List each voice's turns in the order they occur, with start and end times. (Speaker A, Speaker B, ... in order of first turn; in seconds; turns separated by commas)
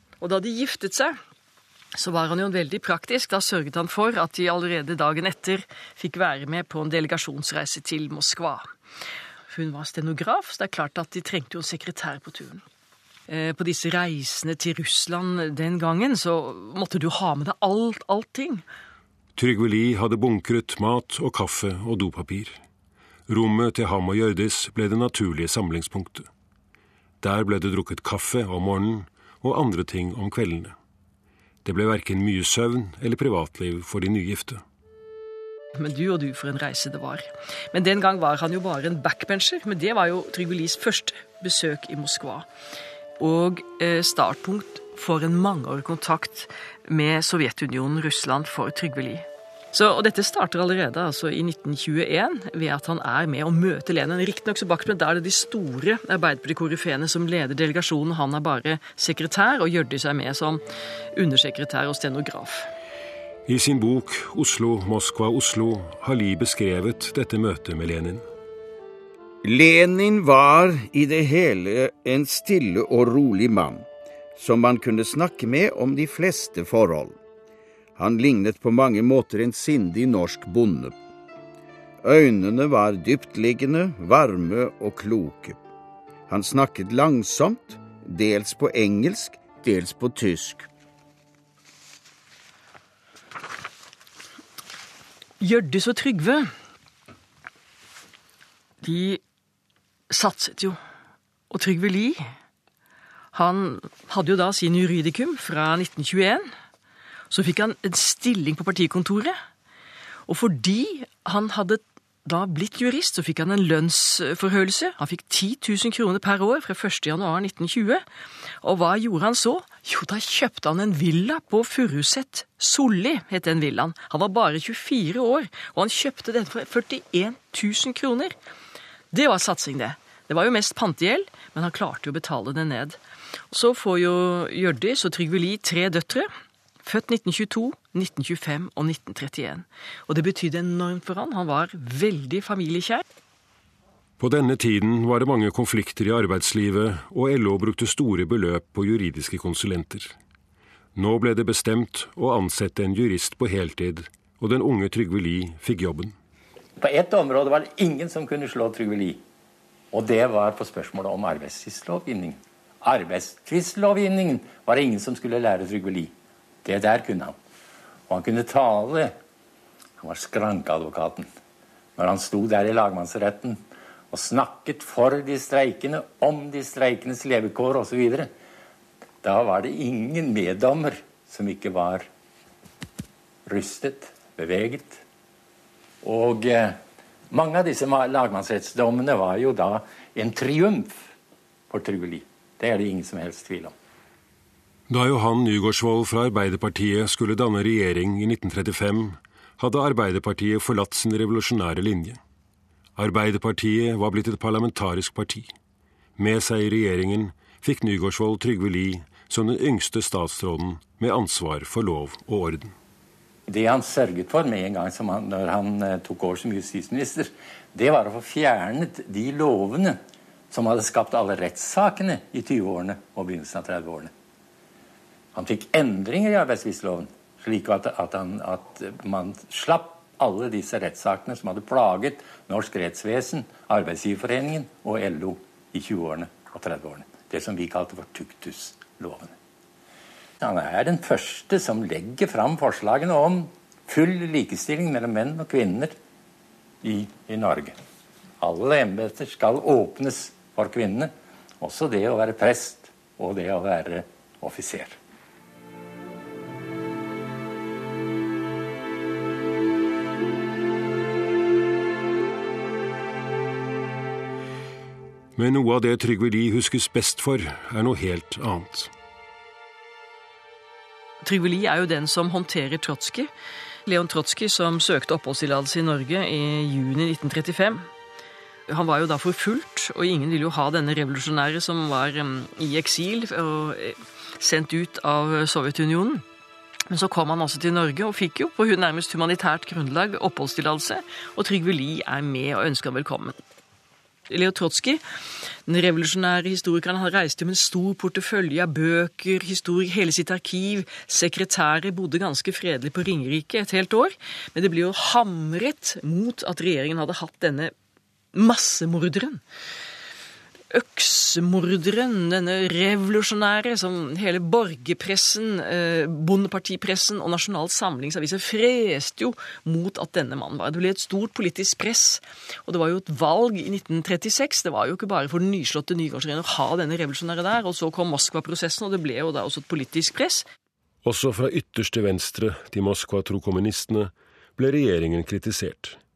Speaker A: 0.2-1.2, Speaker A: 2.0-8.7, Speaker A: 9.5-12.6, Speaker A: 13.3-18.6, Speaker B: 19.4-22.6, Speaker B: 23.3-26.3, Speaker B: 27.2-30.8, Speaker B: 31.6-34.6, Speaker A: 35.8-42.5, Speaker A: 43.2-60.6, Speaker A: 61.1-62.7, Speaker B: 63.5-68.3, Speaker C: 69.4-77.2, Speaker C: 78.0-81.0, Speaker C: 82.0-85.6, Speaker C: 86.3-90.7, Speaker A: 95.4-96.5, Speaker A: 98.8-99.2, Speaker A: 100.1-100.8, Speaker A: 101.5-102.2, Speaker A: 103.3-106.5, Speaker A: 107.3-109.4, Speaker A: 110.3-118.0, Speaker A: 118.6-128.3, Speaker A: 129.1-133.0, Speaker A: 133.5-136.3, Speaker A: 136.8-143.0, Speaker B: 144.2-150.2, Speaker B: 150.9-156.2, Speaker D: 156.8-159.2, Speaker D: 159.9-166.1, Speaker D: 166.6-167.4, Speaker D: 168.1-169.2, Speaker D: 170.0-171.3, Speaker D: 172.0-178.3, Speaker D: 179.2-182.1, Speaker D: 183.5-185.0, Speaker D: 186.0-186.8, Speaker D: 187.3-191.1, Speaker D: 191.7-193.8, Speaker B: 194.9-202.2, Speaker B: 203.0-205.5, Speaker B: 206.2-212.7, Speaker D: 213.5-220.0, Speaker D: 220.5-224.1, Speaker D: 225.3-239.3, Speaker D: 240.4-246.0, Speaker D: 246.8-247.8, Speaker D: 248.4-255.0, Speaker B: 265.4-268.9, Speaker A: 271.2-273.3, Speaker A: 273.9-277.9, Speaker A: 278.7-286.2, Speaker A: 286.9-293.4, Speaker A: 294.3-295.0, Speaker A: 295.7-307.7, Speaker A: 308.3-309.4, Speaker A: 310.7-330.5, Speaker B: 331.0-336.0